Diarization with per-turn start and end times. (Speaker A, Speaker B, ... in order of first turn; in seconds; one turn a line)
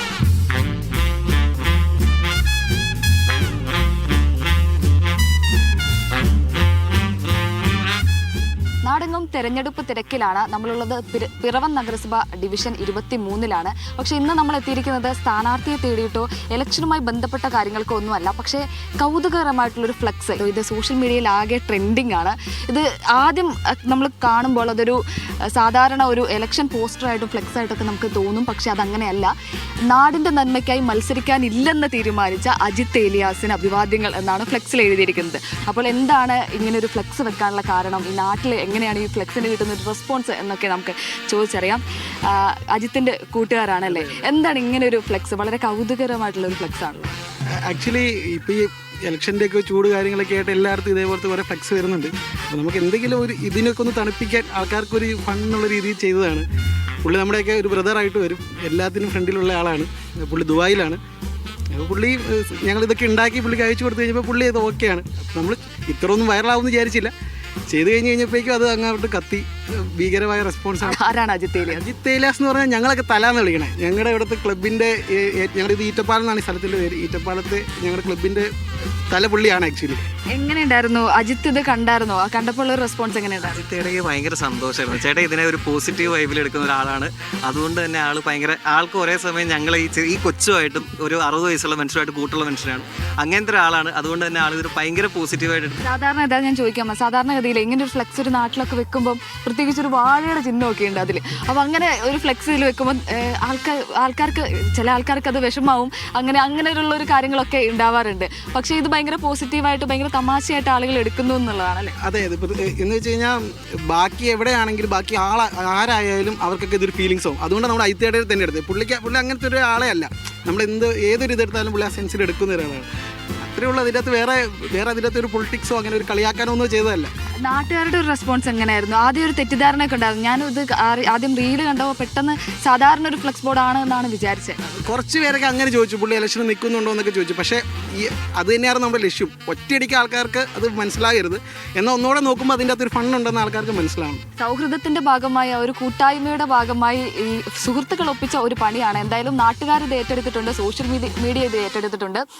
Speaker A: 8.8-25.0
Speaker A: 25.6-29.3
Speaker A: 29.9-47.1
Speaker B: 43.9-44.3
Speaker B: 47.6-56.5
Speaker B: 57.0-61.0
Speaker B: 61.7-67.1
Speaker B: 67.7-71.0
Speaker A: 70.9-71.8
Speaker B: 71.7-78.5
Speaker B: 79.1-80.0
Speaker A: 80.3-83.6
Speaker C: 83.4-95.8
Speaker A: 95.8-112.0
Speaker B: 112.0-122.9
Speaker B: 123.4-127.1
Speaker A: 127.4-134.6
Speaker B: 134.6-144.2
Speaker A: 144.4-152.2